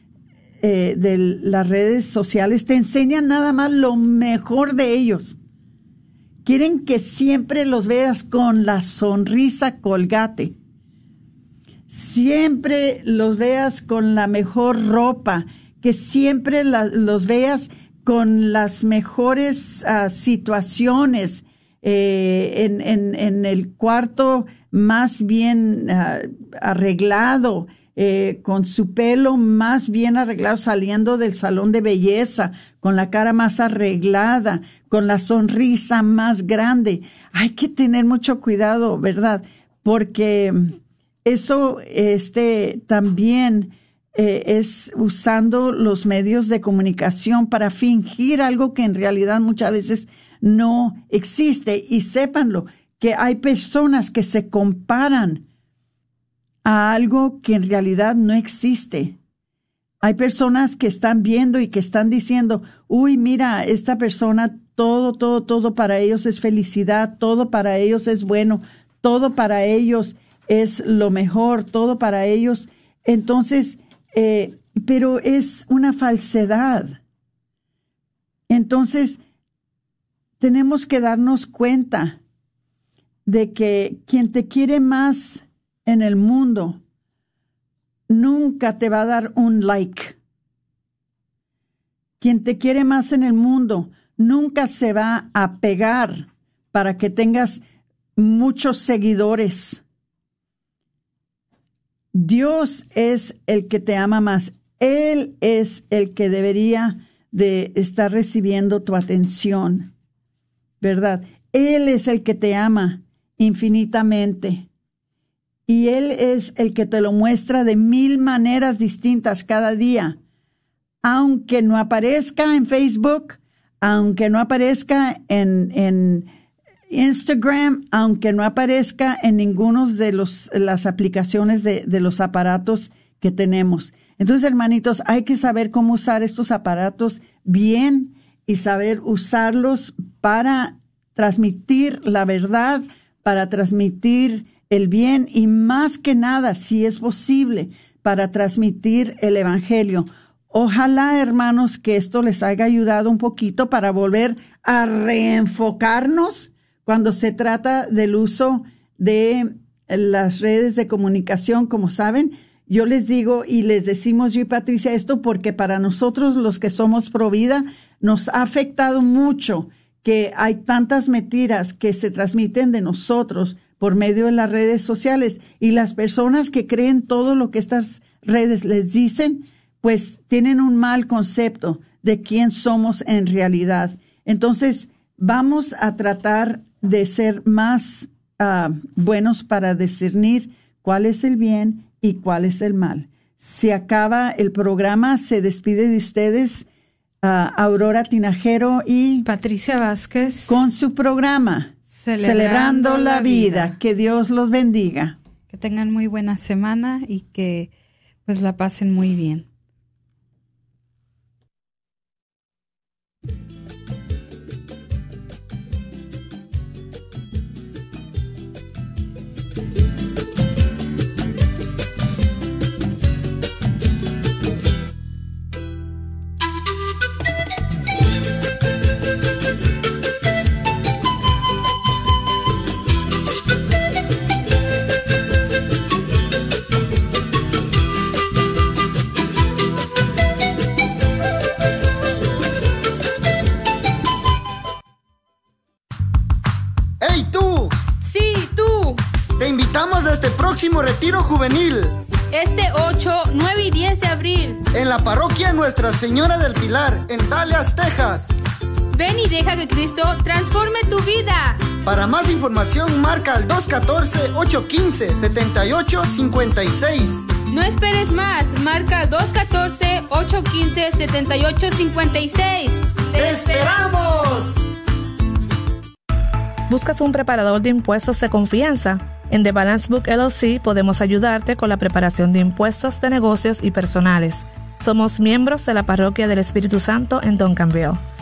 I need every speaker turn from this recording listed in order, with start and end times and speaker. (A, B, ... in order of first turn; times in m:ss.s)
0:00.6-0:05.4 A
0:06.4-0:10.6 A
0:11.9-0:40.7 A
0:41.2-0:55.4 A
0:56.6-0:59.2 A
1:00.0-1:17.0 A
1:18.5-1:19.2 A
1:20.4-1:22.2 A
1:23.3-1:26.8 A
1:28.1-1:30.2 A
1:32.2-1:37.6 A
1:38.2-1:39.8 A
1:42.1-1:49.9 A
1:50.8-1:54.7 A
1:55.7-2:00.2 A
2:01.0-2:06.3 A
2:06.9-3:16.7 A
3:17.2-3:19.3 A
3:19.2-3:20.6 B
3:20.5-3:25.2 A
3:21.9-3:23.8 B
3:25.5-3:27.7 B
3:28.3-3:29.5 B
4:07.0-4:07.7 C
4:08.0-4:09.0 D
4:09.4-4:12.0 C
4:12.3-4:14.7 D
4:14.7-4:18.3 C
4:18.9-4:21.7 D
4:21.8-4:27.3 C
4:27.5-4:33.8 D
4:33.2-4:34.6 C
4:36.7-4:48.0 E